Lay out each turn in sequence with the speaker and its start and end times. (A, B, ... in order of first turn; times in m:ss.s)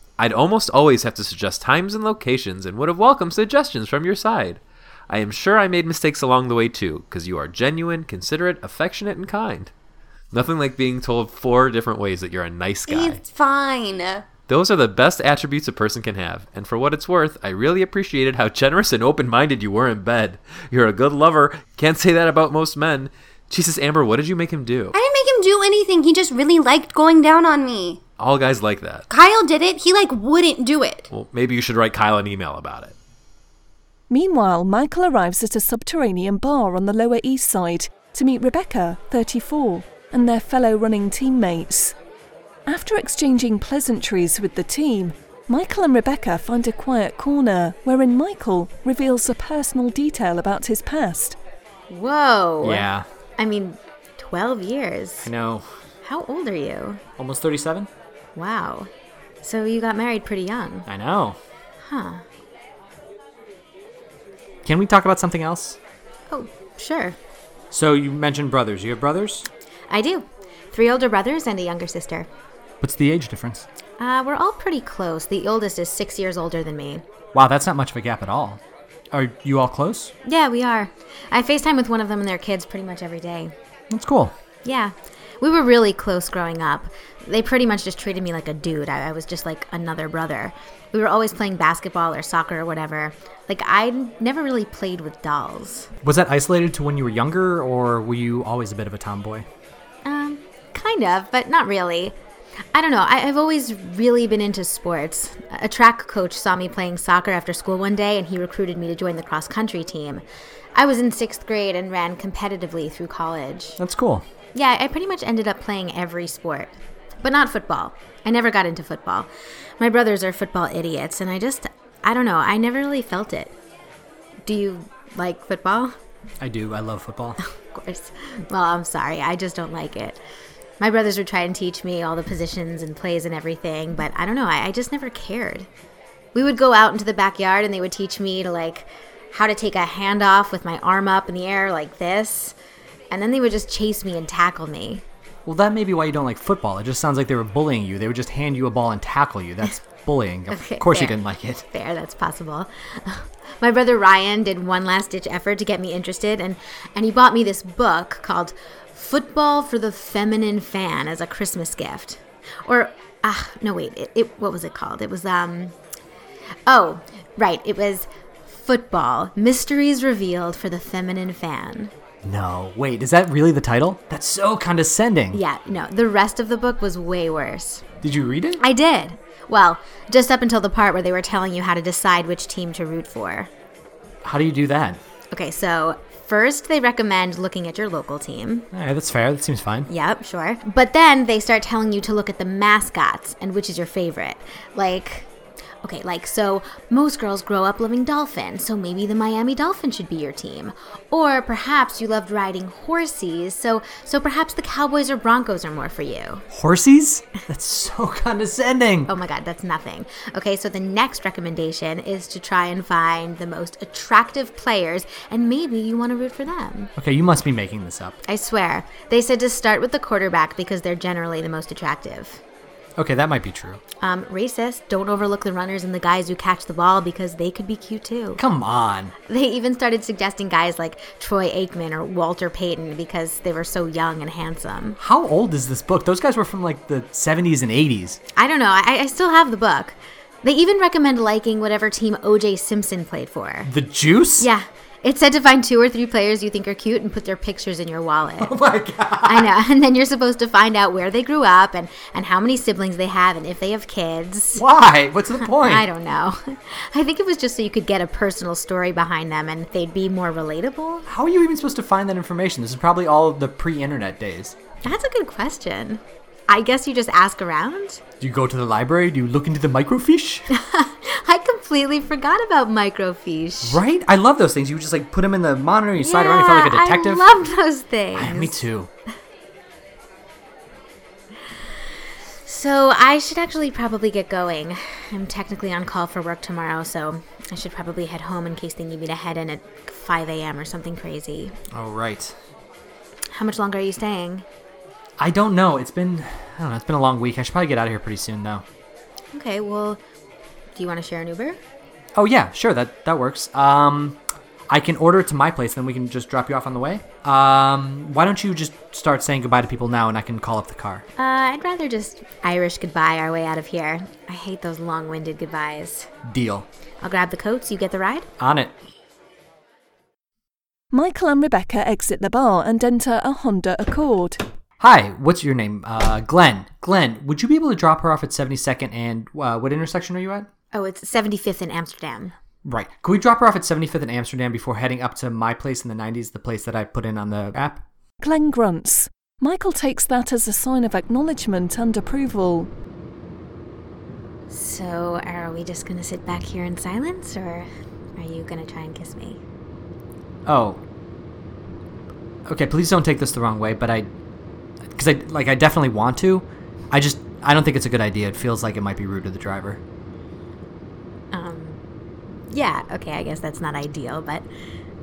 0:00.2-0:09.7 A
0:10.3-0:13.2 A
0:12.9-0:14.3 B
0:14.5-0:24.9 A
0:24.9-0:28.0 B
0:28.2-0:29.0 A
0:29.1-0:31.1 B
0:31.1-0:32.9 A
0:34.1-0:42.0 C
0:42.6-0:51.4 C
0:51.9-0:55.3 D
0:52.6-0:53.0 E
0:55.2-0:55.7 E
0:56.0-0:57.0 D
0:57.2-0:57.9 E
0:58.3-0:58.9 D
0:59.4-1:00.9 D
1:00.9-1:01.4 E
1:01.8-1:02.2 D
1:04.6-1:05.8 E
1:06.3-1:07.2 D
1:07.7-1:09.5 E
1:09.9-1:12.3 D
1:12.8-1:13.6 E
1:14.0-1:17.0 D
1:17.3-1:18.6 E
1:19.1-1:20.1 E
1:20.2-1:23.5 D
1:23.9-1:24.3 E
1:24.6-1:35.9 D
1:36.0-1:39.4 E
1:40.0-1:42.1 D
1:42.7-1:50.2 D
1:50.7-1:53.8 D
1:53.8-1:54.2 E
1:54.5-1:59.3 D
1:59.8-2:03.5 D
2:04.4-2:05.9 D
2:06.4-2:07.4 E
2:07.5-2:10.2 D
2:10.8-2:15.7 D
2:16.3-2:22.5 D
2:23.1-2:25.0 D
2:25.4-2:31.6 E
2:30.5-2:45.7 D
2:46.7-2:51.9 D
2:52.2-2:55.4 E
2:55.3-2:57.8 D
2:58.0-2:58.6 E
2:58.6-3:03.5 D
3:04.2-3:05.0 E
3:05.3-3:08.7 D
3:08.7-3:09.9 E
3:09.9-3:15.3 D
3:15.8-3:26.4 D
3:26.5-3:29.1 E
3:29.1-3:36.9 D
3:37.0-3:38.2 E
3:38.2-3:42.4 D
3:43.0-3:43.8 E
3:44.0-3:48.4 D
3:48.4-3:49.1 E
3:49.3-3:55.0 D
3:55.0-3:58.2 E
3:58.4-4:03.7 D
4:03.6-4:04.5 E
4:04.4-4:08.5 D
4:08.4-4:09.5 E
4:09.2-4:14.6 D
4:14.5-4:15.8 E
4:15.5-4:21.0 D
4:21.1-4:24.6 E
4:24.8-4:28.0 D
4:28.2-4:30.4 E
4:30.5-4:33.8 D
4:33.6-4:37.3 E
4:36.0-4:38.6 D
4:38.1-4:38.9 E
4:42.4-4:51.5 D
4:51.7-4:52.4 E
4:53.3-4:54.4 D
4:55.2-4:58.6 E
4:59.3-5:00.0 D
5:00.7-5:01.6 D
5:02.1-5:11.0 E
5:11.2-5:16.1 D
5:16.2-5:16.7 E
5:17.0-5:18.3 D
5:18.4-5:18.7 E
5:20.9-5:24.4 C
5:24.8-5:30.5 E
5:30.7-5:32.3 D
5:32.6-5:37.8 E
5:38.2-5:42.7 C
5:44.5-5:49.4 D
5:50.4-5:50.8 E
5:52.5-5:54.1 E
5:54.9-5:59.8 E
6:01.3-6:01.8 D
6:02.5-6:04.4 D